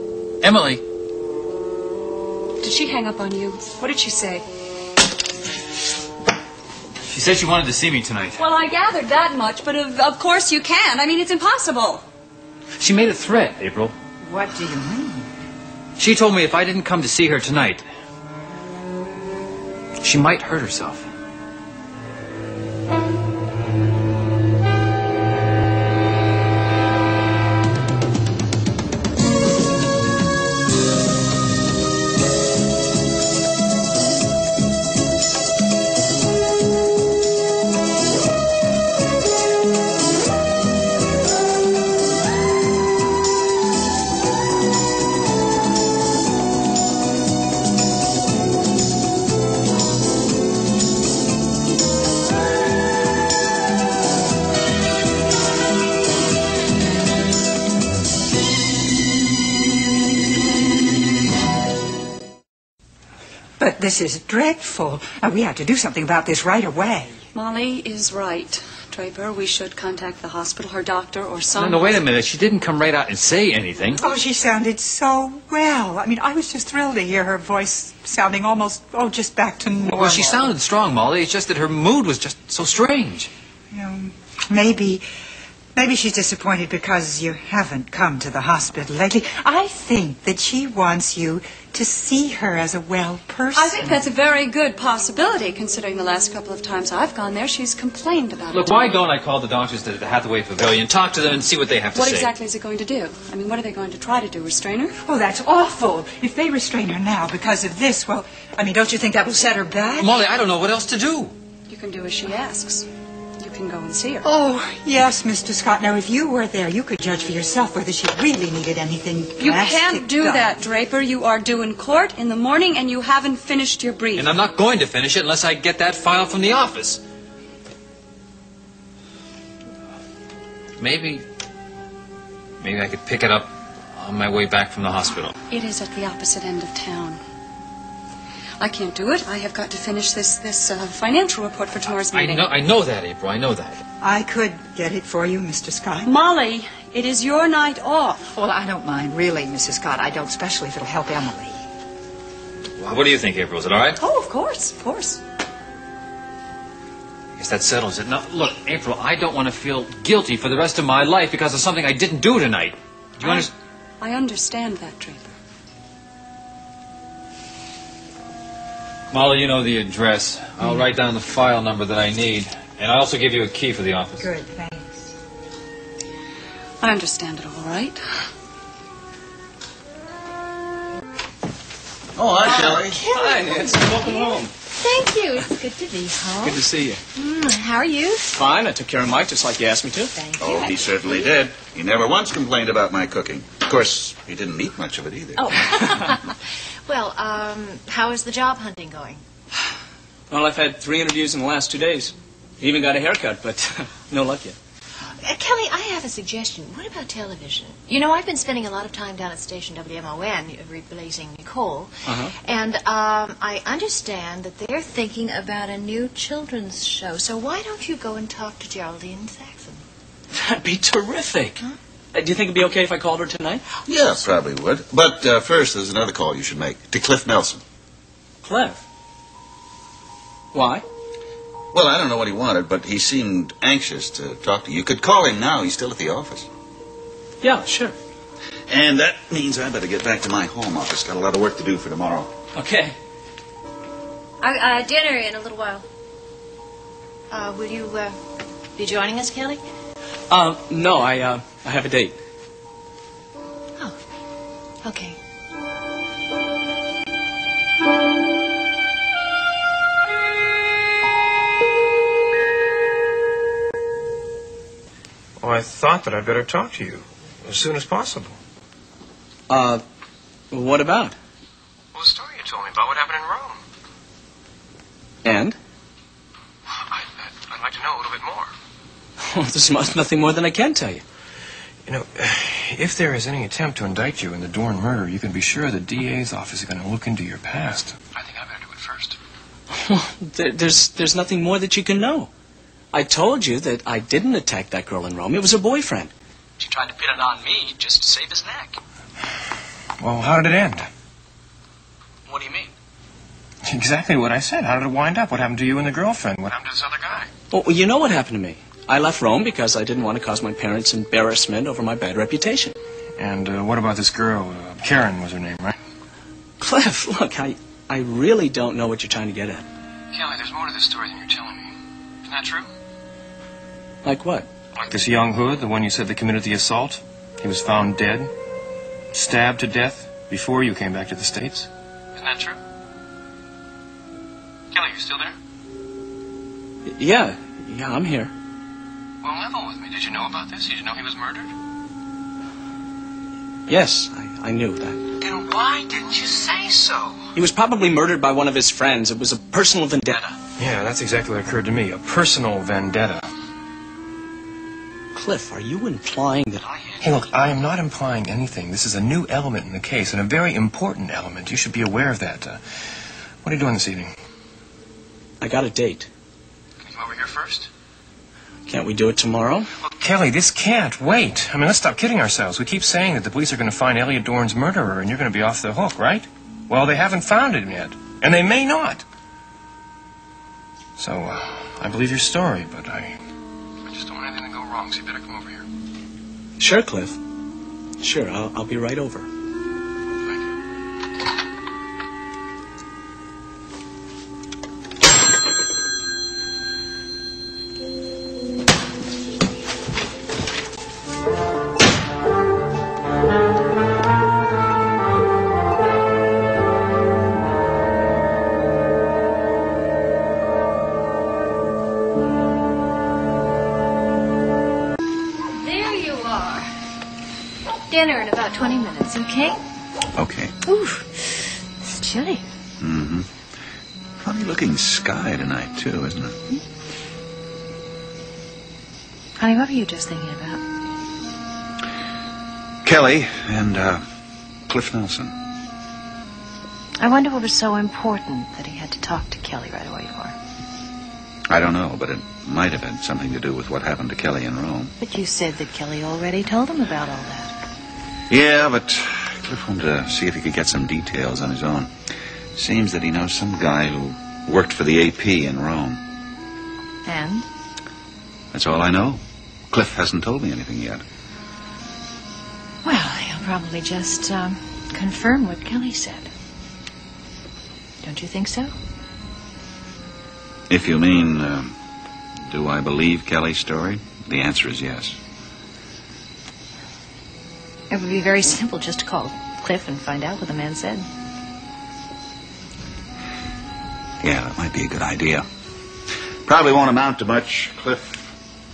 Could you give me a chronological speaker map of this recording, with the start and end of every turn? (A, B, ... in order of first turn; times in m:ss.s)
0:00.4-0:00.8 A
0:02.6-0:04.4 B
0:07.1-0:08.4 A
0:08.4-0:12.0 B
0:12.8-0:13.9 A
0:14.2-0:15.3 C
0:16.0-0:17.8 A
0:20.0-0:21.0 A
1:03.6-1:07.2 C
1:07.3-1:12.0 B
1:11.5-1:14.0 A
1:14.0-1:20.5 C
1:19.8-1:23.3 A
1:23.7-1:25.0 C
1:25.7-1:34.0 C
1:33.5-1:39.0 B
1:38.5-1:42.3 A
1:41.9-1:44.9 B
1:45.0-1:50.1 C
1:50.0-1:51.3 A
1:51.7-1:52.9 B
1:53.4-1:54.2 B
1:54.2-2:00.6 C
1:59.4-2:04.4 B
2:04.2-2:07.0 A
2:10.8-2:11.2 A
2:12.6-2:15.3 A
2:15.5-2:17.2 B
2:18.6-2:22.5 B
2:22.1-2:23.8 A
2:24.0-2:26.1 C
2:26.0-2:28.2 B
2:28.3-2:31.6 C
2:32.8-2:34.0 A
2:34.0-2:35.2 B
2:37.4-2:43.5 A
2:43.2-2:43.5 B
2:44.0-2:45.3 B
2:49.1-2:54.3 A
2:54.2-2:55.1 C
2:56.8-2:58.0 B
3:02.2-3:03.0 D
3:02.4-3:08.4 E
3:02.5-3:04.5 F
3:06.4-3:07.0 F
3:08.3-3:10.1 F
3:10.1-3:11.4 E
3:10.4-3:15.5 D
3:15.4-3:19.2 E
3:20.3-3:24.6 F
3:25.2-3:39.8 E
3:32.0-3:32.3 F
3:40.3-3:41.6 F
3:42.1-3:43.8 F
3:43.8-3:47.6 D
3:48.4-3:48.8 F
3:50.5-3:50.8 F
3:51.7-3:56.5 D
3:57.4-3:57.9 F
3:58.7-4:02.3 D
4:02.5-4:02.9 F
4:04.4-4:05.8 E
4:07.3-4:08.2 E
4:08.7-4:09.6 E
4:10.3-4:12.2 F
4:14.8-4:15.2 E
4:25.4-4:28.4 G
4:29.5-4:29.8 F
4:30.5-4:31.2 F
4:31.9-4:33.6 G
4:35.2-4:35.6 F
4:36.9-4:38.5 G
4:39.2-4:41.0 F
4:41.9-4:49.1 G
4:49.7-4:52.3 F
4:52.9-4:58.8 F
5:00.0-5:00.9 G
5:02.3-5:02.7 F
5:03.6-5:07.3 G
5:07.5-5:12.8 F
5:13.2-5:15.8 G
5:16.6-5:19.7 F
5:20.1-5:21.7 G
5:22.2-5:22.6 G
5:24.0-5:24.5 F
5:24.8-5:28.3 G
5:29.1-5:32.6 G
5:34.7-5:35.3 G
5:36.9-5:38.3 F
5:39.2-5:41.5 G
5:43.7-5:45.1 F
5:45.2-5:47.2 G
5:47.3-5:50.4 F
5:50.6-5:53.2 G
5:55.1-5:57.0 F
5:57.0-6:02.6 G
6:03.4-6:04.1 G
6:05.4-6:06.1 F
6:06.9-6:07.7 G
6:08.7-6:09.7 F
6:09.9-6:19.0 G
6:21.0-6:23.2 G
6:23.9-6:25.6 G
6:26.6-6:27.2 F
6:28.0-6:29.3 F
6:55.5-6:56.7 E
6:57.9-6:59.6 E
7:00.2-7:00.5 D
7:00.6-7:02.4 E
7:02.8-7:03.3 D
7:04.2-7:06.4 D
7:09.4-7:10.6 E
7:12.8-7:14.0 D
7:14.7-7:15.3 D
7:17.0-7:20.3 E
7:21.5-7:24.9 D
7:25.0-7:27.5 E
7:28.3-7:31.9 D
7:32.6-7:36.0 D
7:37.0-7:37.4 E
7:38.5-7:41.0 D
7:42.8-7:46.3 E
7:48.0-7:48.7 E
7:50.7-7:51.8 D
7:52.5-7:55.2 D
7:57.9-8:01.1 E
8:04.2-8:05.4 D
8:06.4-8:08.3 D